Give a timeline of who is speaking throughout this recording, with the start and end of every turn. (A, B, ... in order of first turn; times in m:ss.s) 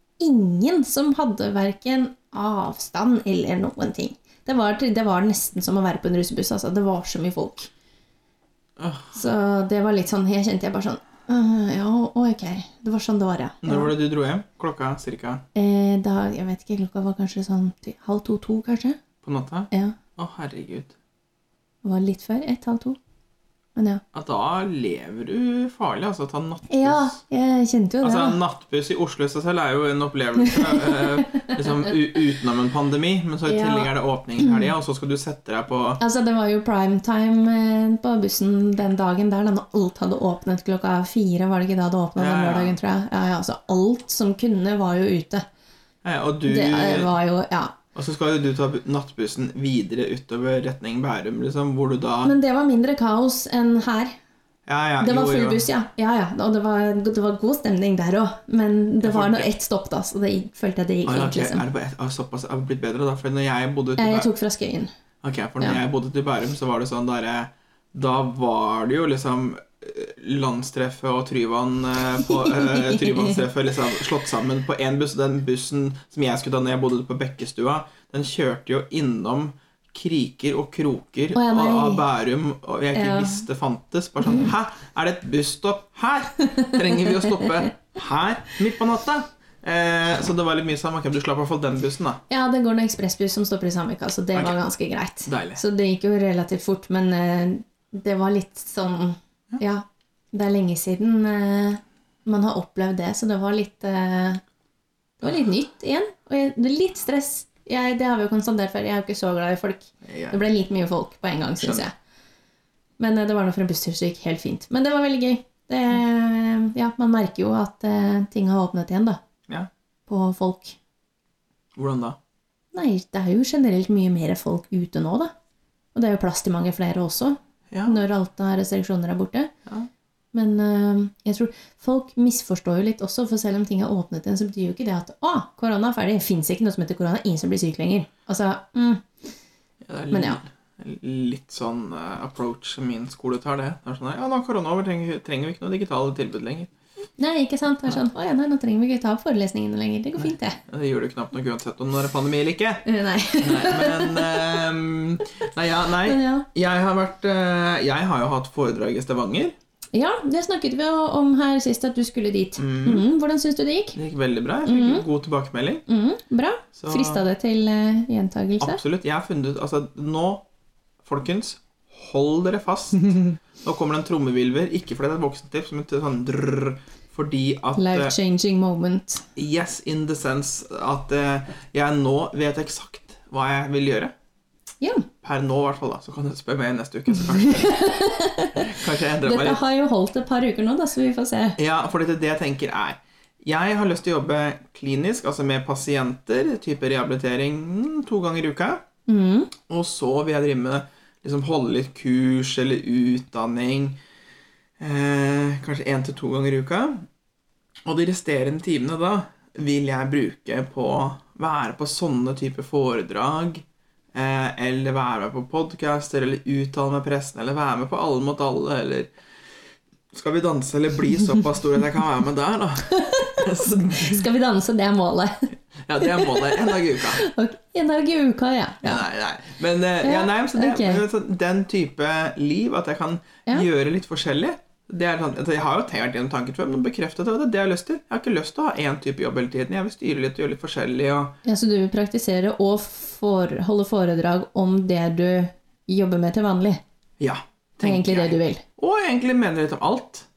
0:00.2-0:07.7 A
0:08.8-0:09.2 B
0:09.1-0:13.9 A
0:13.6-0:15.4 B
0:15.5-0:19.0 A
0:19.2-0:20.9 B
0:19.7-0:20.0 A
0:21.8-0:23.0 A
0:23.8-0:24.0 A
0:24.1-0:27.2 B
0:26.7-0:28.4 A
0:28.0-0:36.0 B
0:30.4-0:31.9 A
0:33.4-0:34.7 A
0:36.0-0:45.4 A
0:42.2-0:42.8 B
0:46.0-0:47.1 B
0:46.4-0:47.8 A
0:47.9-0:52.3 B
0:52.2-0:54.1 A
0:54.7-0:55.6 B
0:55.0-1:01.6 A
0:59.0-0:59.5 B
1:01.0-1:04.3 B
1:04.0-1:04.9 A
1:05.2-1:32.2 B
1:12.2-1:13.4 A
1:21.3-1:22.0 A
1:22.9-1:23.4 A
1:32.3-1:44.4 A
1:35.2-1:35.6 B
1:45.2-1:51.9 A
1:50.0-1:50.4 B
1:51.6-1:51.8 B
1:53.0-1:59.2 A
2:00.1-2:00.8 A
2:01.8-2:02.2 B
2:02.7-2:05.3 A
2:05.9-2:09.5 A
2:07.7-2:08.0 B
2:10.3-2:19.0 A
2:19.8-2:26.7 B
2:20.1-2:20.4 A
2:27.2-2:30.6 A
2:30.2-2:32.8 B
2:32.8-2:34.6 A
2:33.4-2:39.5 B
2:36.0-2:36.5 A
2:39.9-2:44.0 A
2:42.6-2:43.0 B
2:43.9-2:45.8 B
2:44.6-2:45.0 A
2:45.9-2:48.8 A
2:46.8-2:47.2 B
2:48.6-2:50.4 B
2:51.0-2:58.1 B
2:57.8-2:59.2 A
2:59.4-3:04.1 B
3:04.8-3:05.1 A
3:05.2-3:08.0 B
3:07.1-3:11.6 A
3:08.6-3:09.6 B
3:11.6-3:18.8 B
3:19.1-3:19.5 A
3:19.7-3:24.0 B
3:24.8-3:27.0 B
3:27.8-3:39.1 B
3:40.1-3:44.3 B
3:42.8-3:49.0 A
3:45.8-3:47.2 B
3:48.8-4:01.4 B
3:50.0-3:51.0 A
4:01.4-4:06.8 A
4:07.2-4:10.2 B
4:07.8-4:08.6 A